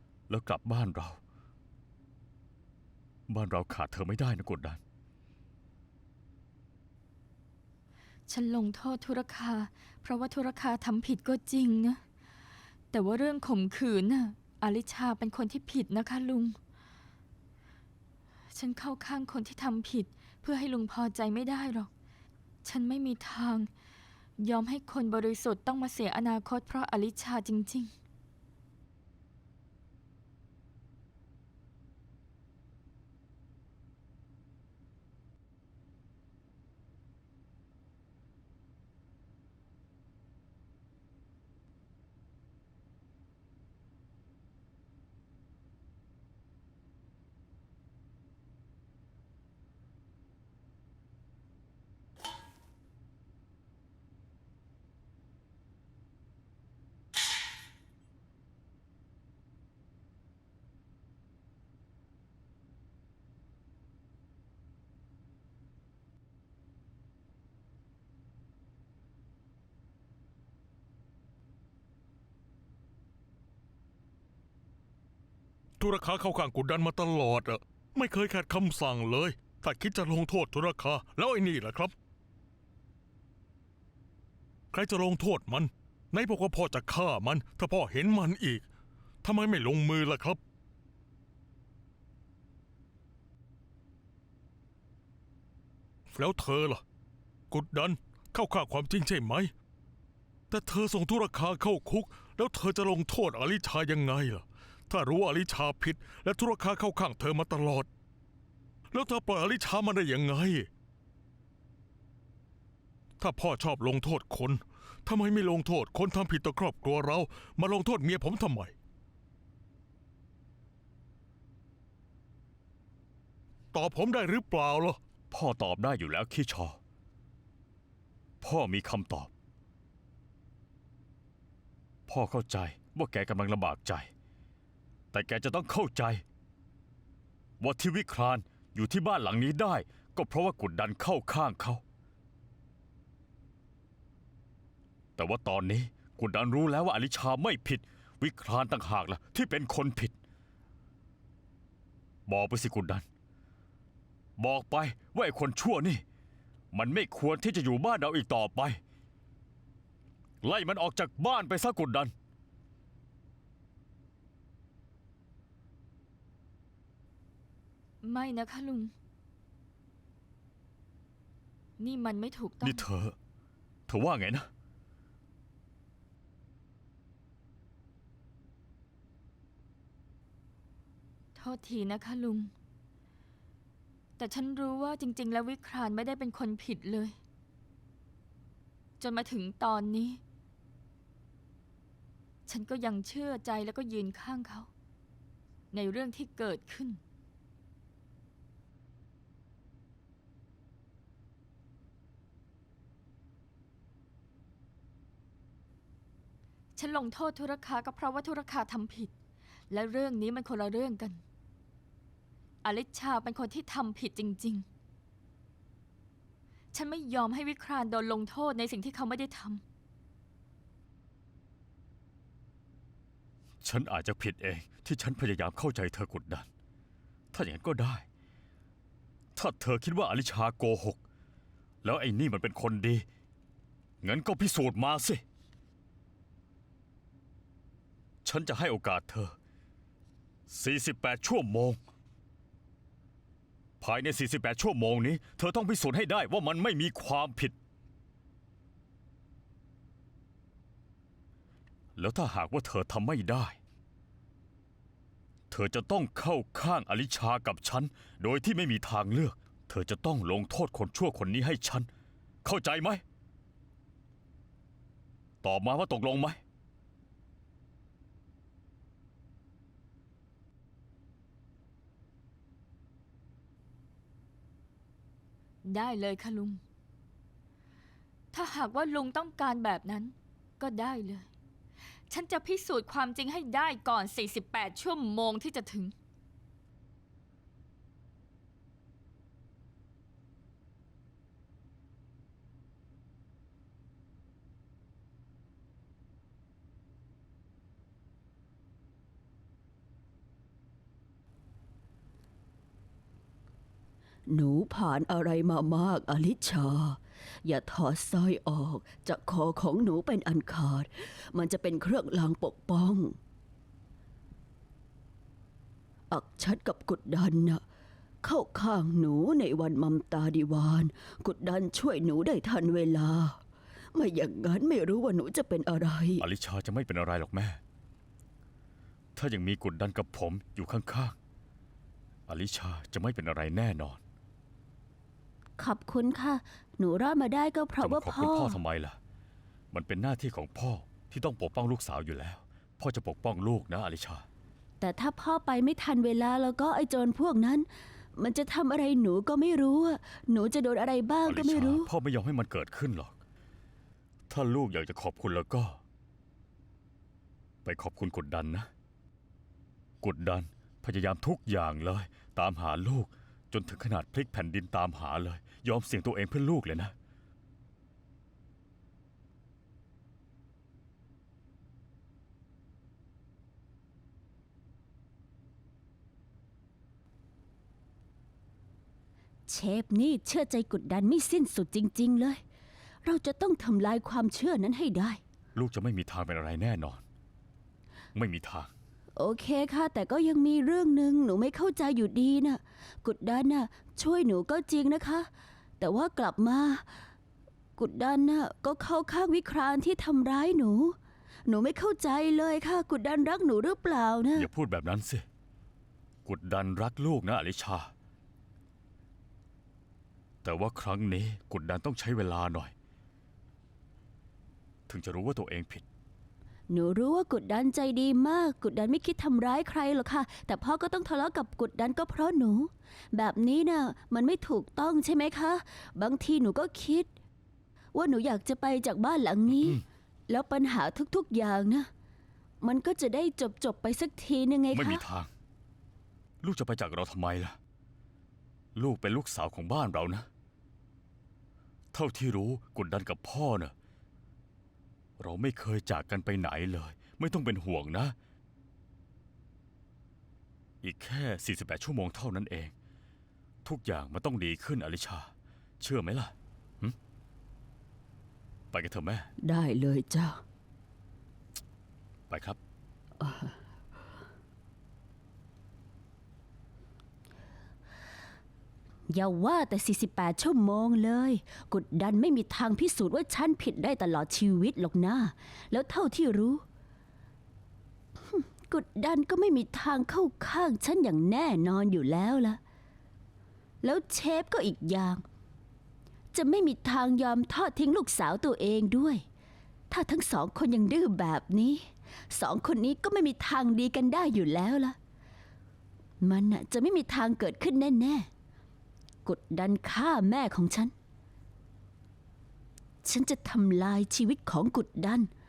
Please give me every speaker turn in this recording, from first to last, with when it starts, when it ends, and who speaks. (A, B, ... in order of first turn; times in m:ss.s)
0:00.3-0:01.2 A
0:03.3-0:04.8 A
0:08.3-0:12.0 B
0:12.9-0:16.6 B
0:18.5-0:21.9 B
0:22.6-0:23.7 B
0:24.4-0:27.9 B
1:15.8-1:21.9 C
1:24.7-1:28.7 C
1:29.2-1:30.4 C
1:36.1-1:36.8 C
1:37.5-1:39.5 C
1:40.5-1:47.9 C
1:48.9-1:50.7 C
1:53.2-1:58.7 C
2:03.7-2:05.0 C
2:05.3-2:06.8 A
2:08.4-2:09.3 A
2:12.1-2:14.1 A
2:15.1-2:16.2 A
2:17.6-2:21.8 A
2:25.2-2:30.1 A
2:32.3-2:33.0 A
2:34.4-2:36.0 A
2:36.7-2:38.8 A
2:40.4-2:42.1 A
2:48.0-2:48.9 B
2:51.8-2:52.8 B
2:52.6-2:53.2 A
2:53.9-2:54.5 A
3:01.4-3:02.5 B
3:04.2-3:07.2 B
3:09.0-3:10.2 B
3:12.5-3:14.7 B
3:15.7-3:17.0 B
3:26.8-3:29.1 B
3:29.7-3:31.2 B
3:32.6-3:34.6 B
3:36.7-3:39.6 B
3:43.6-3:46.5 A
3:47.3-3:48.0 A
3:49.3-3:51.0 A
3:51.8-3:53.0 A
3:54.0-3:55.2 A
3:58.2-3:59.4 A
4:00.5-4:01.8 A
4:03.8-4:07.5 A
4:12.0-4:13.6 A
4:15.5-4:21.9 A
4:22.4-4:23.0 A
4:25.4-4:26.4 A
4:35.6-4:36.6 B
4:38.3-4:41.3 B
4:42.1-4:45.9 B
5:04.3-5:13.2 D
5:16.1-5:17.6 D
5:18.2-5:23.4 D
5:23.9-5:26.2 D
5:26.2-5:27.6 A
5:29.1-5:31.2 A
5:32.3-5:34.0 A
5:35.6-5:38.6 D
5:37.8-5:39.0 A
5:39.7-5:44.2 A
5:44.8-5:51.9 D
5:51.2-5:53.1 A
5:54.3-5:55.8 A
5:57.6-5:58.7 A
6:00.0-6:06.9 A
6:19.5-6:22.4 D
6:23.0-6:25.2 D
6:25.5-6:27.0 A
6:28.1-6:28.7 A
6:29.2-6:35.3 D
6:35.8-6:36.9 D
6:37.8-6:41.0 D
6:41.5-6:44.5 D
6:44.3-6:45.2 A
6:46.2-6:47.9 A
6:50.4-6:52.7 A
6:54.9-6:55.8 A
6:56.7-7:07.1 D
7:07.9-7:11.9 D
7:12.6-7:15.0 D
7:14.7-7:15.3 A
7:16.4-7:17.6 A
7:18.7-7:20.3 A
7:21.9-7:23.7 A
7:25.2-7:28.1 A
7:30.8-7:32.7 A
7:33.6-7:37.0 A
7:38.7-7:39.3 A
7:39.4-7:40.4 D
7:42.3-7:42.6 A
7:43.2-7:43.5 D
7:49.1-7:56.6 D
7:58.3-8:02.6 D
8:03.8-8:05.2 D
8:06.3-8:09.2 D
8:09.9-8:15.0 D
8:16.2-8:18.3 D
8:19.2-8:20.9 D
8:23.0-8:25.3 D